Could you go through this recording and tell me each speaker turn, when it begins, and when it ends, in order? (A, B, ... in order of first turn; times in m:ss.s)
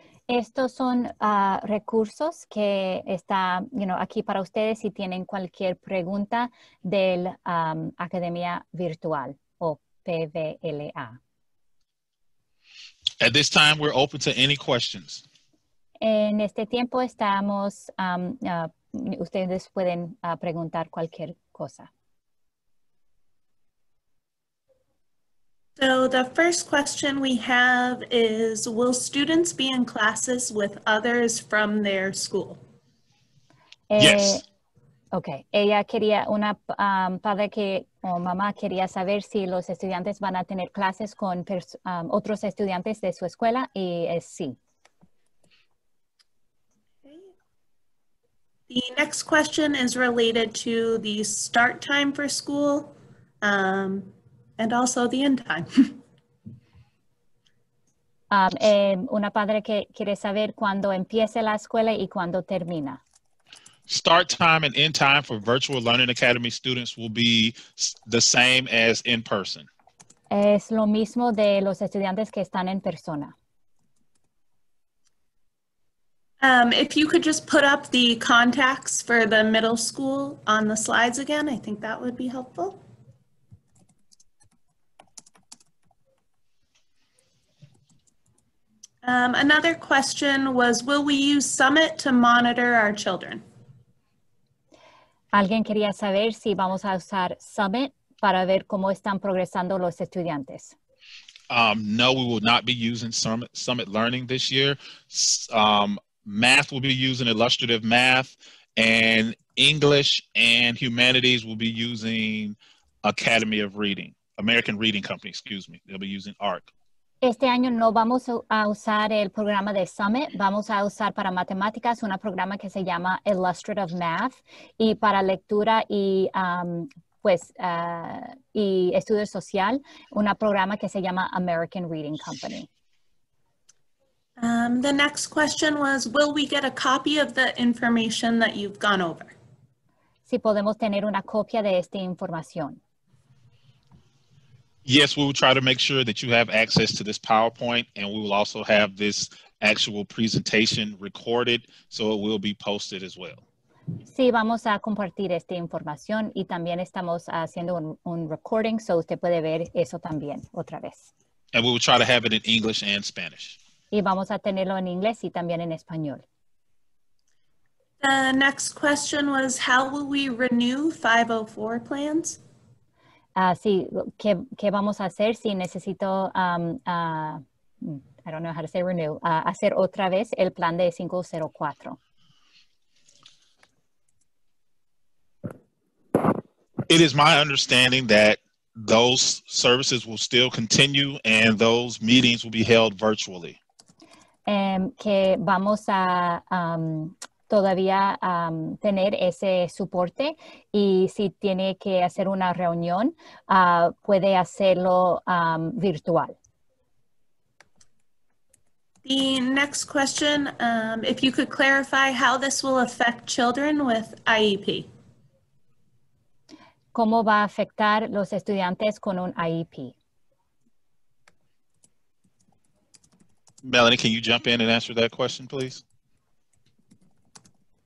0:00.3-0:11.2 A
0:13.2-0:15.2 B
0:16.0-0:21.9 A
0:25.8-0:32.6 C
0:33.9-0:34.4 A
0:34.0-0:34.4 B
0:35.1-0:44.6 A
0:47.0-0:47.3 C
0:48.7-0:56.0 C
0:58.3-1:03.0 A
1:03.9-1:09.7 B
1:10.3-1:13.3 A
1:16.4-1:22.8 C
1:29.0-1:33.4 C
1:35.3-1:40.7 A
1:41.5-1:56.7 B
1:57.2-2:12.7 A
2:14.4-2:19.3 C
2:20.3-2:22.8 A
2:24.8-2:33.4 B
2:34.1-2:41.1 A
2:41.5-2:43.6 B
2:43.9-2:46.2 A
2:48.0-2:52.4 C
2:53.4-3:02.0 A
3:06.9-3:13.6 B
3:14.4-3:26.3 A
3:29.0-3:34.9 C
3:36.9-3:39.9 A
3:43.6-3:45.8 B